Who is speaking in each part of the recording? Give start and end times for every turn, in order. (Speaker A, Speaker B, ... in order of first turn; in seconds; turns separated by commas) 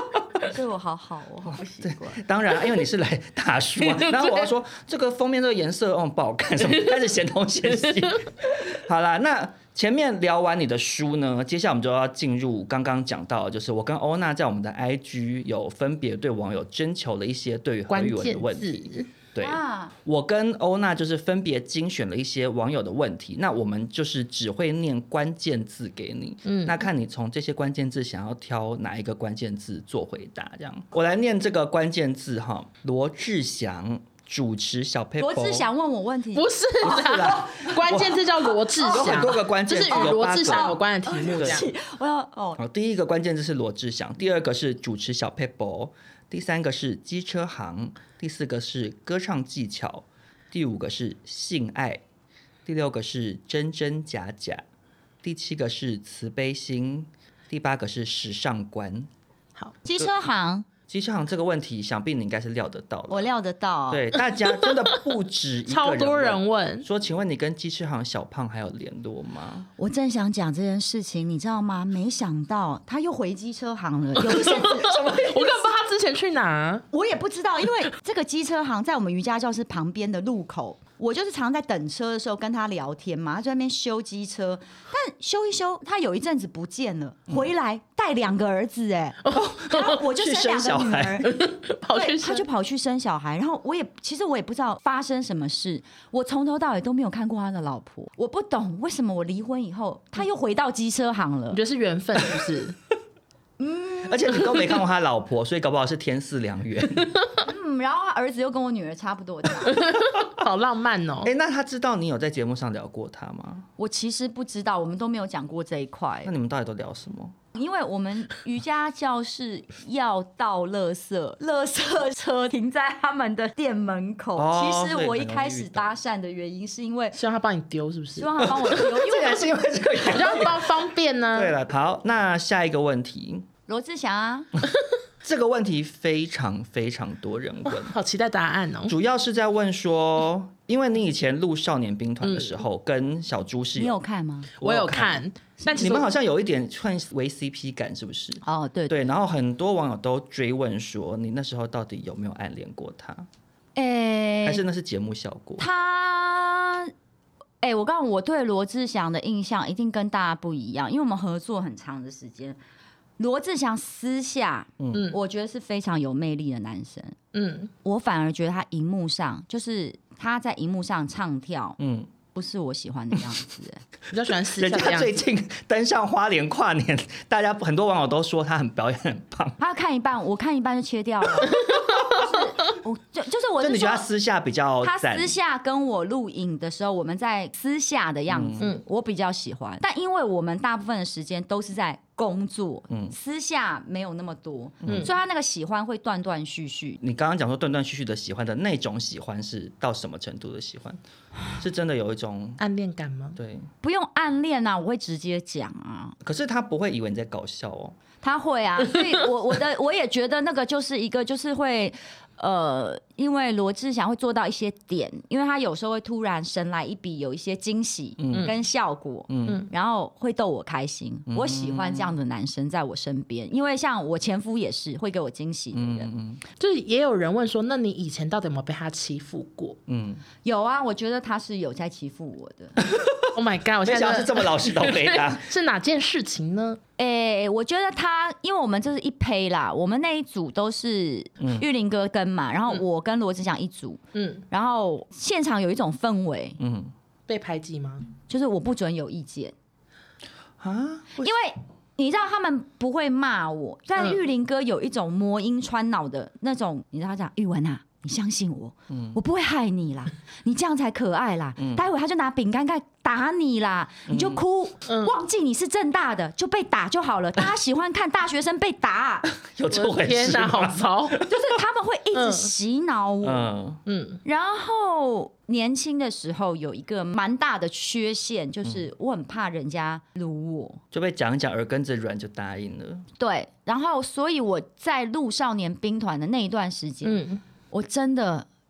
Speaker A: 0.4-2.2, Speaker B: 1.5-35.7, Speaker C: 17.9-19.1, Speaker A: 19.4-19.9, Speaker C: 26.5-26.8, Speaker A: 35.2-37.4, Speaker C: 36.3-41.7, Speaker B: 36.8-40.8, Speaker A: 38.8-39.4, Speaker A: 39.9-42.6, Speaker B: 41.4-41.7, Speaker B: 42.6-52.0, Speaker B: 52.7-54.6, Speaker B: 55.2-59.1, Speaker A: 59.9-60.7, Speaker B: 60.9-63.3, Speaker A: 63.1-64.1, Speaker B: 63.9-69.7, Speaker C: 65.7-66.9, Speaker A: 69.8-75.0, Speaker B: 74.3-75.5, Speaker C: 74.4-76.8, Speaker A: 76.9-91.3, Speaker C: 89.2-90.0, Speaker B: 89.3-91.3, Speaker C: 91.2-92.5, Speaker A: 91.9-101.6, Speaker C: 101.5-102.8, Speaker A: 103.6-104.6, Speaker B: 104.0-107.2, Speaker A: 107.4-109.9, Speaker C: 109.7-111.3, Speaker B: 111.2-113.7, Speaker A: 113.8-116.3, Speaker B: 116.2-117.4, Speaker A: 117.5-127.2, Speaker B: 124.4-125.9, Speaker C: 127.2-128.4, Speaker A: 128.2-129.5, Speaker B: 128.4-133.5, Speaker C: 130.0-131.6, Speaker A: 133.7-134.5, Speaker B: 135.2-138.0, Speaker C: 137.9-138.9, Speaker B: 138.9-143.9, Speaker C: 142.2-142.5, Speaker A: 143.8-144.5, Speaker C: 144.6-146.1, Speaker B: 144.6-153.3, Speaker A: 148.4-149.0, Speaker A: 153.8-154.6, Speaker B: 154.4-155.7, Speaker A: 155.6-156.9, Speaker A: 157.6-162.6, Speaker A: 163.2-167.2, Speaker B: 164.8-165.1, Speaker C: 164.9-165.2, Speaker C: 167.3-167.7, Speaker A: 167.8-171.8, Speaker B: 171.8-172.1, Speaker A: 172.3-173.8, Speaker C: 174.1-175.2, Speaker B: 174.6-179.6, Speaker A: 179.6-184.1, Speaker C: 181.5-182.2, Speaker B: 183.6-185.3, Speaker A: 184.8-197.0, Speaker B: 188.3-188.7, Speaker B: 194.8-195.1, Speaker B: 197.0-201.0, Speaker B: 201.6-202.6, Speaker C: 202.6-203.4, Speaker B: 203.4-203.7, Speaker A: 203.8-206.2, Speaker B: 206.2-208.0, Speaker A: 208.2-226.1, Speaker B: 218.2-218.5, Speaker B: 219.3-219.7, Speaker B: 221.3-222.2, Speaker B: 225.7-226.4, Speaker C: 226.6-229.8, Speaker B: 229.9-230.2, Speaker A: 230.4-232.8, Speaker B: 232.8-233.3, Speaker C: 233.3-236.8, Speaker B: 233.8-235.4, Speaker A: 237.0-246.6, Speaker B: 241.4-241.7, Speaker C: 244.2-244.4, Speaker B: 246.6-246.9, Speaker C: 247.3-248.1, Speaker A: 248.3-249.5, Speaker B: 250.6-251.3, Speaker A: 251.2-269.3, Speaker B: 258.9-259.2, Speaker B: 264.1-264.4, Speaker C: 264.9-265.1, Speaker B: 269.4-271.4, Speaker C: 269.7-271.2, Speaker A: 271.3-273.5, Speaker C: 272.1-272.5, Speaker B: 273.2-273.8, Speaker C: 273.9-274.2, Speaker A: 274.2-280.8, Speaker B: 280.9-283.1, Speaker A: 283.2-288.5, Speaker C: 287.0-287.4